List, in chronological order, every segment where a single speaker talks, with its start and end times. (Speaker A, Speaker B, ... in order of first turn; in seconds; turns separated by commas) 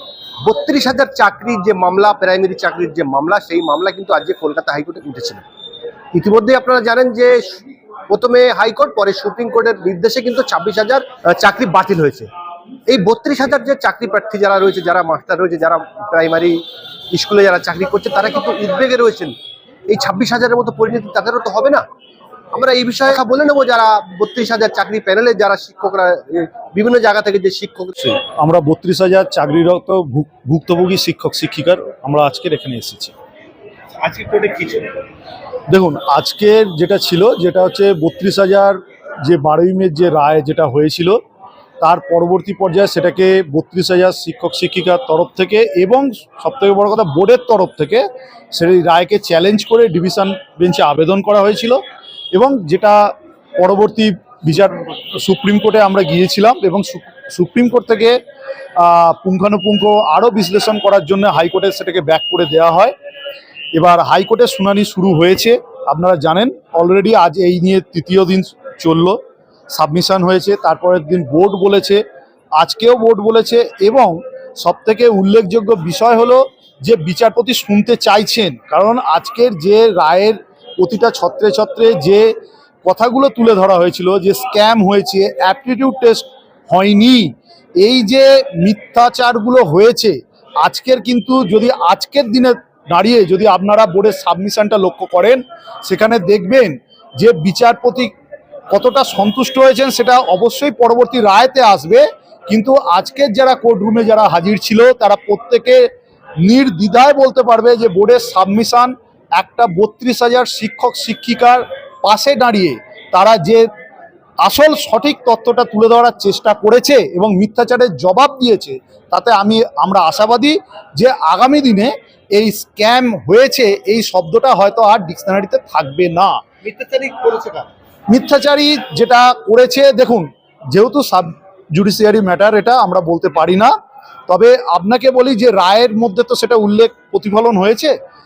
Speaker A: 0.4-5.4, Speaker A: 6.1-12.3, Speaker A: 12.9-19.4, Speaker A: 19.9-21.8, Speaker A: 22.5-27.9, Speaker B: 28.0-33.1, Speaker A: 34.0-34.9, Speaker B: 35.7-41.2, Speaker B: 41.8-51.8, Speaker B: 52.3-58.2, Speaker B: 58.8-62.9, Speaker B: 63.7-69.2, Speaker B: 69.7-72.0, Speaker B: 72.5-82.3, Speaker B: 82.8-98.1, Speaker B: 98.7-105.8, Speaker B: 106.4-113.7, Speaker B: 114.4-126.3, Speaker A: 126.6-127.7, Speaker B: 128.1-133.7, Speaker B: 134.3-137.9